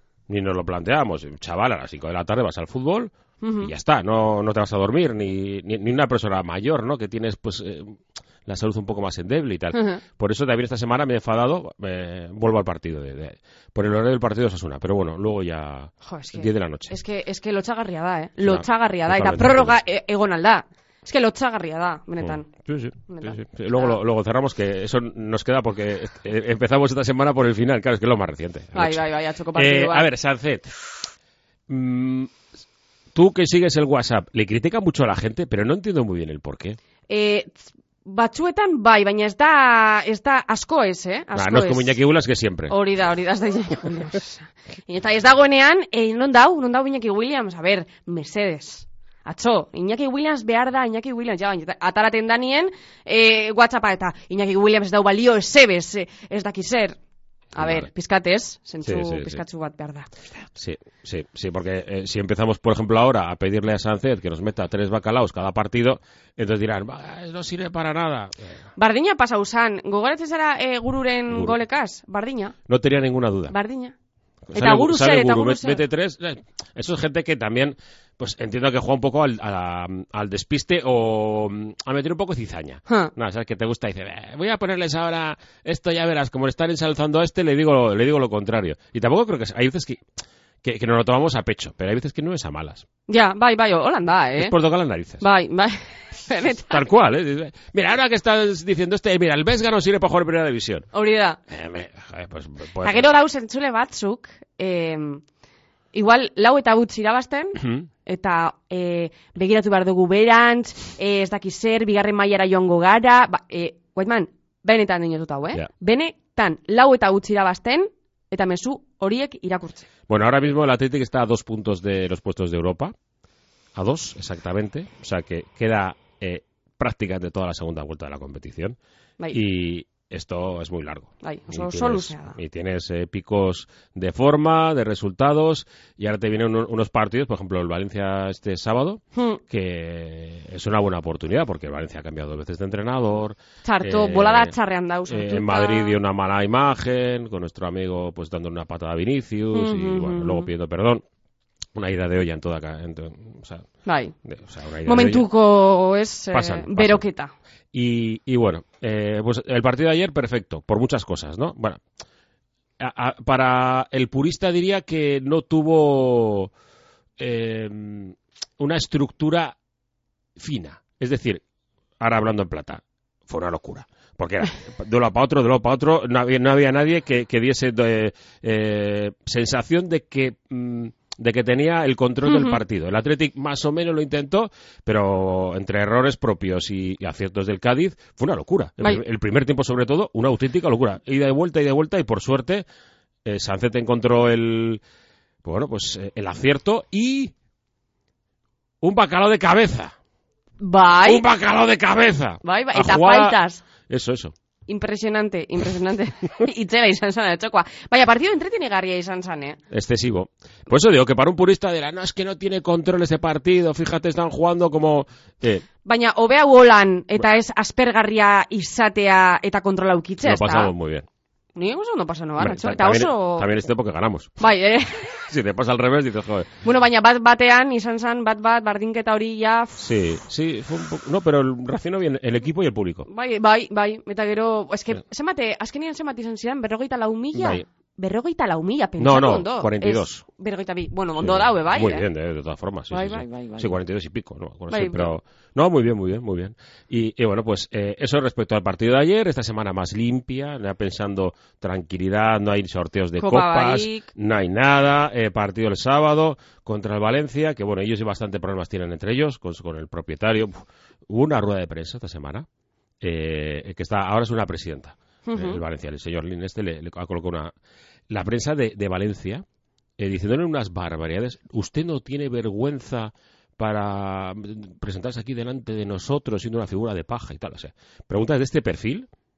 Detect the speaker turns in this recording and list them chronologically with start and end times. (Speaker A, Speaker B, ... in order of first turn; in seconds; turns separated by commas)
Speaker A: 0.3-17.0, Speaker B: 3.4-3.7, Speaker B: 9.7-10.0, Speaker B: 16.0-22.5, Speaker A: 18.4-19.8, Speaker A: 22.2-29.0, Speaker B: 23.1-24.0, Speaker B: 28.8-30.1, Speaker A: 29.6-30.7, Speaker A: 31.7-32.4, Speaker A: 33.1-36.8, Speaker B: 37.1-42.0, Speaker A: 41.3-42.8, Speaker B: 42.7-57.0, Speaker B: 57.5-60.2, Speaker A: 57.6-57.9, Speaker A: 58.8-59.4, Speaker A: 60.5-68.5, Speaker B: 68.8-72.5, Speaker A: 71.3-71.6, Speaker A: 72.7-73.5, Speaker B: 73.5-74.0, Speaker A: 74.5-90.0, Speaker B: 74.5-75.8, Speaker B: 82.9-83.1, Speaker A: 90.6-92.8, Speaker B: 93.1-94.5, Speaker A: 94.4-95.2, Speaker B: 95.2-96.8, Speaker A: 96.6-100.9, Speaker B: 100.9-101.4, Speaker A: 101.5-103.1, Speaker B: 102.8-105.2, Speaker B: 105.9-119.9, Speaker A: 107.6-107.9, Speaker A: 120.1-122.9, Speaker A: 123.8-128.8, Speaker A: 129.3-144.5, Speaker B: 131.2-132.4, Speaker B: 139.2-139.4, Speaker B: 143.6-146.0, Speaker A: 145.1-151.0, Speaker B: 149.5-150.5, Speaker A: 151.8-153.7, Speaker B: 153.8-154.2, Speaker A: 154.2-155.3, Speaker B: 154.8-157.3, Speaker A: 156.3-157.0, Speaker A: 157.7-161.8, Speaker A: 162.8-166.5, Speaker A: 167.2-169.6, Speaker A: 170.4-171.4, Speaker A: 172.0-192.7, Speaker B: 182.3-182.6, Speaker A: 193.2-194.8, Speaker A: 195.4-197.3, Speaker A: 198.8-199.9, Speaker B: 200.6-201.2, Speaker A: 201.1-204.3, Speaker B: 202.4-203.6, Speaker B: 204.7-209.6, Speaker A: 209.7-215.7, Speaker B: 215.8-220.7, Speaker A: 220.2-221.1, Speaker B: 221.6-223.5, Speaker A: 222.4-224.4, Speaker B: 224.4-225.2, Speaker A: 225.3-226.5, Speaker B: 226.6-229.9, Speaker A: 229.8-233.1, Speaker B: 233.1-242.1, Speaker A: 237.3-237.6, Speaker A: 239.0-240.2, Speaker A: 241.2-262.5, Speaker B: 242.9-243.8, Speaker B: 244.7-245.2, Speaker B: 253.2-254.1, Speaker A: 263.0-267.5, Speaker B: 265.3-265.6, Speaker A: 268.1-269.4, Speaker A: 270.0-279.1